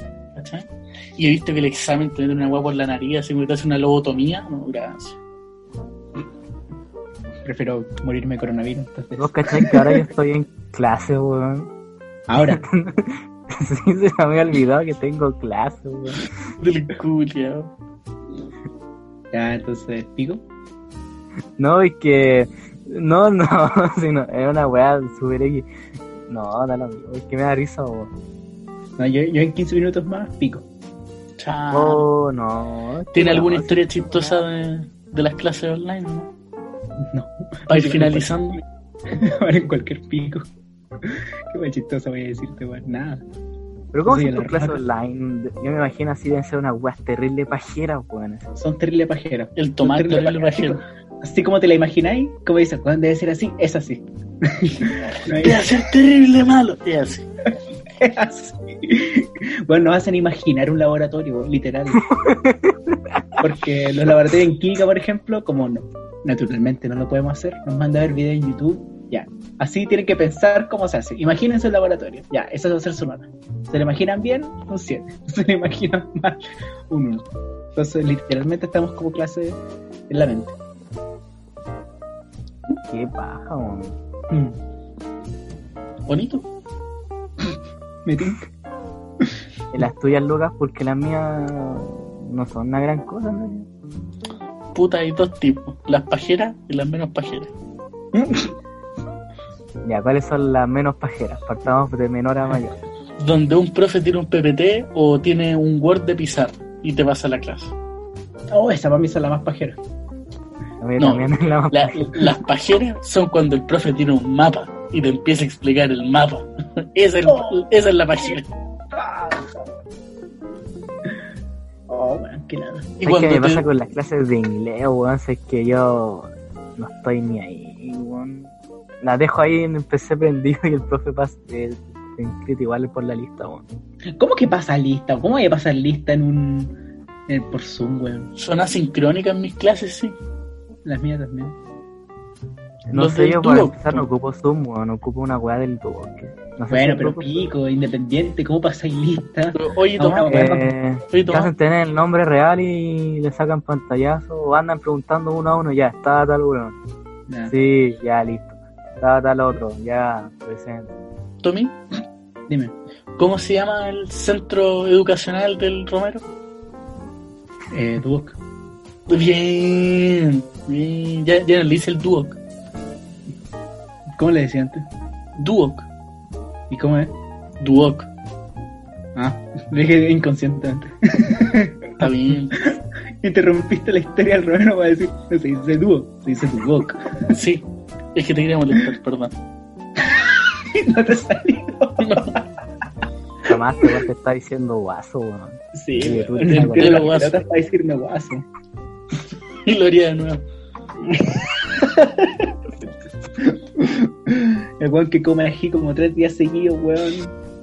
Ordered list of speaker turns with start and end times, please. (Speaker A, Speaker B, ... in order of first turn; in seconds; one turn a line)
Speaker A: 0.3-5.2
Speaker B: 7.4-10.0
Speaker C: 9.2-11.7
Speaker B: 12.3-12.6
Speaker C: 12.4-16.3
Speaker A: 16.6-17.7
Speaker B: 19.3-20.4
Speaker C: 21.6-25.7
Speaker C: 26.3-28.1
Speaker B: 29.0-30.6
Speaker A: 31.4-32.1
Speaker C: 31.7-34.4
Speaker A: 33.1-36.3
Speaker B: 37.0-38.5
Speaker A: 37.7-38.6
Speaker B: 39.1-40.5
Speaker B: 41.0-43.2
Speaker C: 43.9-48.5
Speaker B: 44.0-44.8
Speaker B: 48.5-55.6
Speaker A: 49.6-50.8
Speaker A: 55.4-57.3
Speaker B: 58.0-62.1
Speaker C: 62.1-63.2
Speaker B: 63.4-80.5
Speaker C: 82.8-84.0
Speaker B: 84.3-84.6
Speaker A: 86.1-86.5
Speaker B: 88.0-88.4
Speaker C: 89.7-93.7
Speaker A: 94.7-97.5
Speaker B: 98.1-98.5
Speaker C: 99.8-102.8
Speaker A: 103.2-107.7
Speaker B: 108.5-109.8
Speaker C: 110.8-112.3
Speaker A: 111.0-118.5
Speaker B: 117.2-117.6
Speaker B: 118.9-119.7
Speaker B: 121.9-122.9
Speaker A: 123.0-123.7
Speaker C: 123.0-133.6
Speaker B: 134.2-136.7
Speaker B: 137.3-138.3
Speaker A: 138.4-140.2
Speaker B: 140.8-141.6
Speaker C: 142.9-147.3
Speaker A: 142.9-144.0
Speaker B: 146.7-150.7
Speaker A: 149.5-150.4
Speaker C: 150.3-156.8
Speaker A: 151.1-151.5
Speaker C: 157.4-160.9
Speaker A: 161.4-161.7
Speaker B: 162.5-162.7
Speaker A: 163.2-166.3
Speaker B: 167.7-168.4
Speaker A: 169.1-172.4
Speaker B: 174.1-174.8
Speaker A: 175.4-175.9
Speaker B: 176.7-177.1
Speaker A: 177.6-178.1
Speaker B: 179.2-187.4
Speaker A: 182.0-182.6
Speaker A: 187.3-189.3
Speaker B: 190.0-192.4
Speaker A: 192.0-192.3
Speaker C: 193.5-197.1
Speaker B: 195.7-198.4
Speaker A: 196.5-197.4
Speaker A: 199.7-200.4
Speaker B: 201.1-202.6
Speaker B: 203.4-207.3